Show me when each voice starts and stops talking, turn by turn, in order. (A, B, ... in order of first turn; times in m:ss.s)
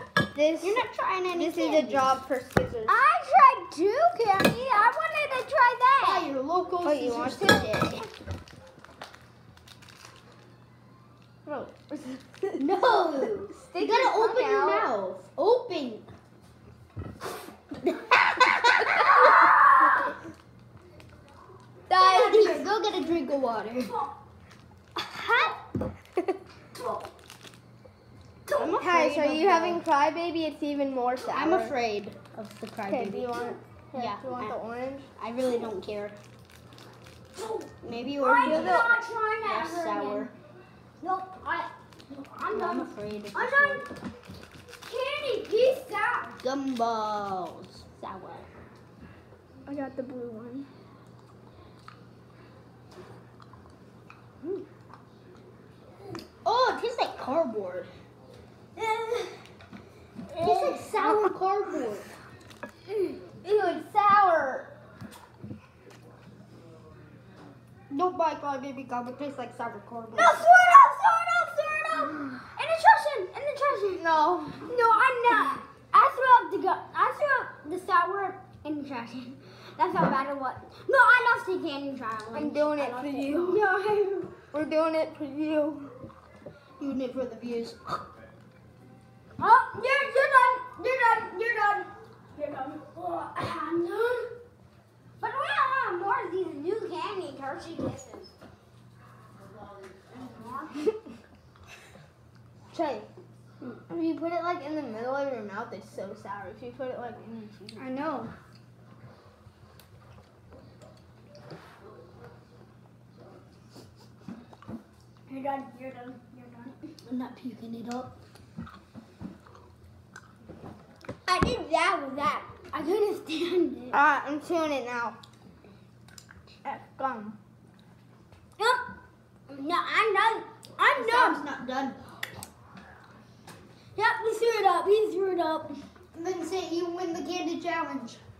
0:00.3-0:00.8 A
0:00.6-0:02.2 B
0:01.3-0:03.0 A
0:02.8-0:06.3 C
0:06.0-0:08.0 B
0:06.8-0:07.7 A
0:07.6-0:08.0 C
0:11.4-0:12.6 A
0:12.6-0:16.1 B
0:13.5-0:14.9 A
0:17.8-0:19.0 B
0:19.0-0:20.0 C
0:21.9-0:22.6 A
0:22.0-0:24.0 B
0:25.0-0:25.6 C
0:26.8-0:27.1 C
0:28.5-0:28.7 C
0:28.5-0:29.8 B
0:28.6-0:31.7 A
0:31.3-0:34.6 B
0:32.9-0:35.1 A
0:35.2-0:36.2 B
0:37.4-0:40.3 C
0:37.8-0:40.3 B
0:38.2-0:39.0 A
0:41.0-0:43.9 C
0:42.5-0:43.9 B
0:44.8-0:46.3 C
0:46.4-0:48.4 B
0:49.7-0:50.7 A
0:56.4-0:57.9 B
0:58.8-0:59.3 C
1:00.3-1:01.2 A
1:00.4-1:02.1 B
1:03.4-1:04.7 A
1:07.9-1:10.4 B
1:10.1-1:24.4 C
1:14.0-1:14.6 A
1:22.3-1:23.6 A
1:24.5-1:25.9 A
1:26.8-1:28.0 B
1:29.4-1:34.3 C
1:35.2-1:38.3 C
1:40.1-1:40.8 C
1:42.7-1:43.1 A
1:43.9-1:47.9 A
1:47.8-1:48.2 C
1:48.0-1:48.3 B
1:55.3-1:56.8 C
1:57.0-1:58.1 B
2:01.3-2:04.0 C
2:03.9-2:05.2 A
2:06.6-2:07.4 A
2:08.6-2:08.8 C
2:09.5-2:11.4 C
2:10.9-2:12.0 B
2:14.0-2:15.8 C
2:16.1-2:18.2 B